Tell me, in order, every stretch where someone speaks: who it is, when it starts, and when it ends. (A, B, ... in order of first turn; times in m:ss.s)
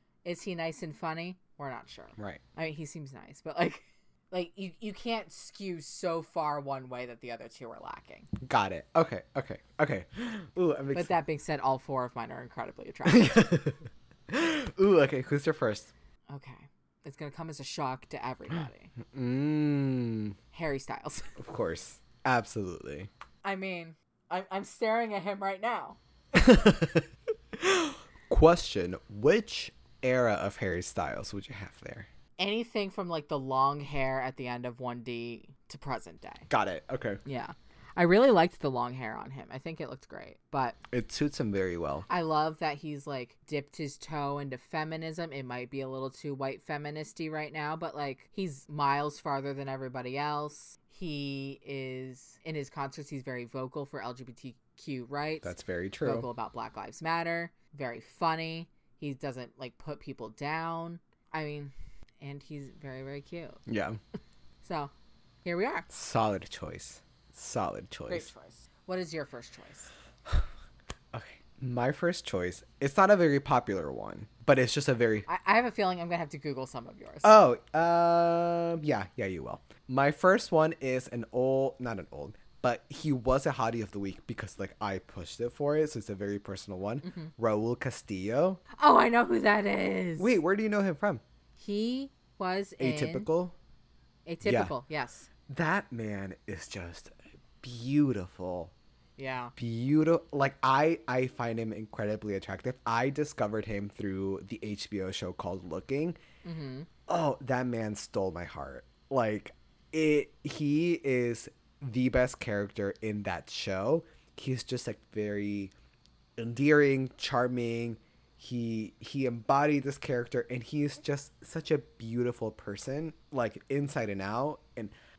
0:00.2-0:08.3 A
0:08.4-0:11.1 B
0:10.9-0:13.4 A
0:13.1-0:15.9 B
0:16.3-0:18.9 A
0:19.1-0:20.4 B
0:20.5-0:21.3 A
0:21.4-0:23.1 B
0:23.4-0:26.0 A
0:26.3-0:32.1 B
0:32.4-0:36.5 A
0:36.5-0:37.2 B
0:37.2-0:40.8 A
0:40.9-0:42.1 B
0:42.1-1:03.6 A
0:55.4-0:56.3 B
1:03.7-1:04.0 B
1:04.6-1:04.9 A
1:05.4-1:05.9 A
1:05.9-1:08.3 B
1:08.1-1:09.9 A
1:11.1-1:15.3 B
1:15.3-1:17.3 A
1:17.2-1:28.6 B
1:27.0-1:27.3 A
1:28.8-1:30.4 A
1:30.2-1:31.2 B
1:31.6-1:33.3 A
1:32.8-1:33.6 B
1:34.3-1:35.3 A
1:34.4-1:34.7 B
1:35.5-1:38.7 B
1:39.2-1:39.5 A
1:39.6-1:46.2 B
1:46.4-1:46.9 A
1:47.1-1:55.7 B
1:56.4-2:04.9 B